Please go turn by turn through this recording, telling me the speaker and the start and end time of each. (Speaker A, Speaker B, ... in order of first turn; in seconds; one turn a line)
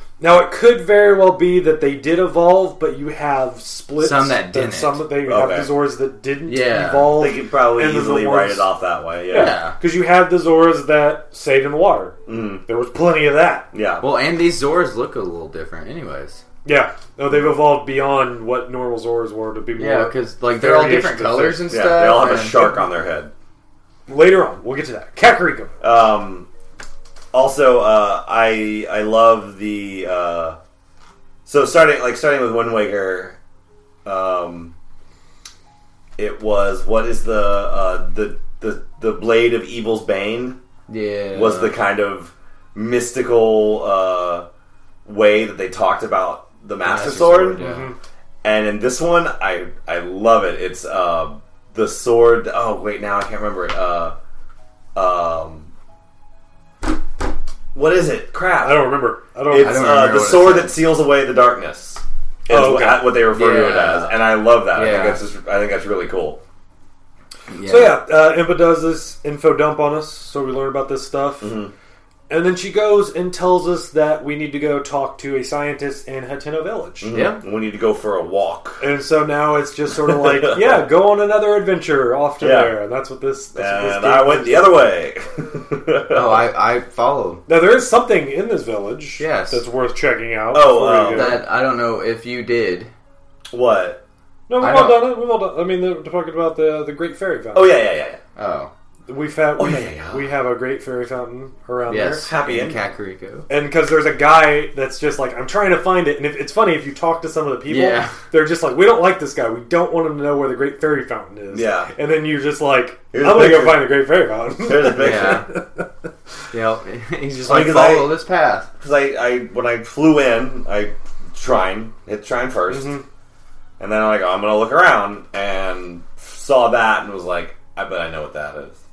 Speaker A: 0.2-8.7
Speaker B: 4.0-5.0
Speaker C: 5.3-5.7
Speaker B: 6.5-7.2
Speaker C: 7.1-9.5
Speaker A: 9.3-13.7
Speaker B: 9.3-9.8
Speaker C: 12.3-12.6
Speaker C: 13.7-14.0
Speaker B: 14.0-16.4
Speaker A: 16.6-21.7
Speaker B: 19.8-22.8
Speaker C: 21.7-23.3
Speaker A: 24.1-25.8
Speaker C: 25.8-26.5
Speaker C: 27.3-30.6
Speaker C: 31.4-33.4
Speaker C: 34.0-34.7
Speaker C: 36.2-40.6
Speaker B: 40.9-41.7
Speaker C: 41.3-44.5
Speaker C: 45.0-47.6
Speaker B: 46.8-47.9
Speaker A: 47.6-48.0
Speaker C: 48.4-54.1
Speaker C: 54.9-55.7
Speaker C: 57.7-58.9
Speaker A: 58.6-59.9
Speaker C: 59.5-66.4
Speaker B: 59.5-60.8
Speaker A: 62.5-63.1
Speaker B: 63.3-65.2
Speaker B: 67.5-68.0
Speaker A: 67.6-71.5
Speaker C: 71.4-71.7
Speaker A: 72.3-77.1
Speaker C: 77.0-78.8
Speaker B: 77.1-77.4
Speaker A: 78.8-84.9
Speaker C: 80.1-80.8
Speaker C: 82.4-82.7
Speaker C: 83.5-86.5
Speaker B: 86.1-87.4
Speaker A: 87.5-91.4
Speaker B: 89.2-89.6
Speaker C: 90.5-91.4
Speaker B: 91.1-92.9
Speaker C: 93.5-94.0
Speaker A: 94.5-97.8
Speaker B: 94.6-95.1
Speaker C: 97.5-98.2
Speaker B: 98.3-98.7
Speaker A: 99.1-102.3
Speaker C: 99.6-100.3
Speaker B: 101.9-103.5
Speaker C: 102.2-102.8
Speaker A: 103.5-115.8
Speaker B: 107.7-108.2
Speaker C: 111.5-111.9
Speaker C: 113.1-114.0
Speaker C: 114.6-115.4
Speaker B: 115.0-115.5
Speaker B: 116.5-118.7
Speaker C: 117.4-118.1
Speaker C: 118.8-122.9
Speaker A: 122.7-123.0
Speaker C: 123.8-128.8